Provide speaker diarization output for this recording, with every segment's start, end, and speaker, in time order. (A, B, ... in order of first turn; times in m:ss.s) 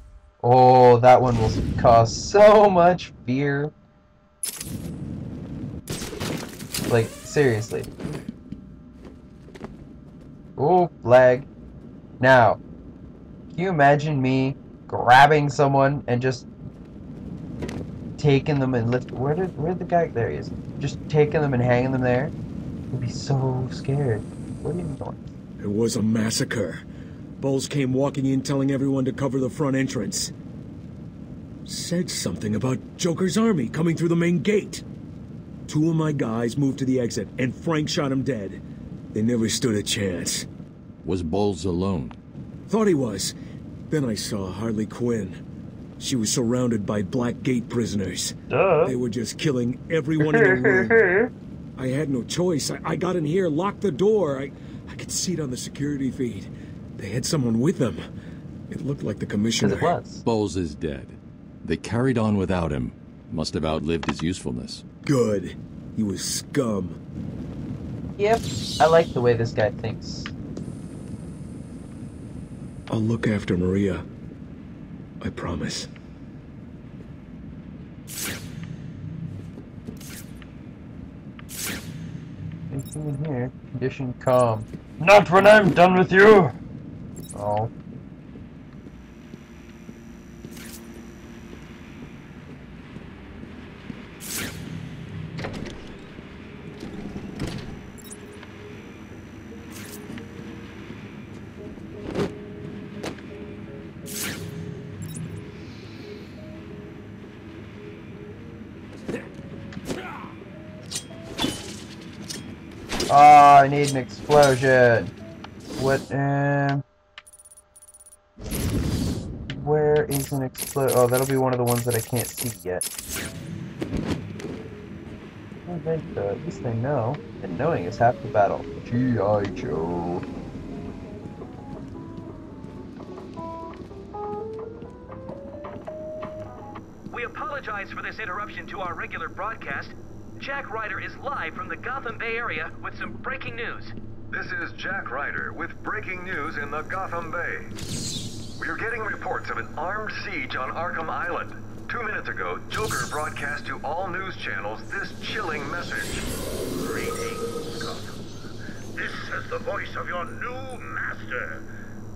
0:00.4-0:03.7 A
0:06.9-0:07.9 A
0:10.6-0:11.5 A
0:12.2-0:12.6 A
0:13.5-0:16.5 A
0:18.2-0:22.3 A
0:22.9-0:25.3 A
0:25.6-0:26.8 B
0:27.4-0:30.3 B
0:31.6-0:34.8 B
0:35.7-0:38.6 B
0:39.1-0:40.5 B
0:41.0-0:42.2 C
0:42.7-0:43.3 B
0:43.9-0:45.4 B
0:46.0-0:51.0 B
0:48.5-0:48.9 A
0:50.2-0:51.3 A
0:51.8-0:58.0 B
0:58.7-1:00.0 B
0:59.6-1:00.2 A
1:00.2-1:04.8 C
1:05.0-1:07.0 B
1:08.2-1:10.3 A
1:12.9-1:14.0 B
1:15.2-1:15.9 B
1:22.7-1:26.5 A
1:27.3-1:27.7 A
1:53.1-1:55.1 A
1:55.8-1:56.8 A
1:59.5-2:02.8 A
2:05.6-2:10.2 A
2:17.1-2:23.9 D
2:24.3-2:27.7 E
2:28.6-2:36.2 E
2:36.8-2:38.2 F
2:39.0-2:41.6 F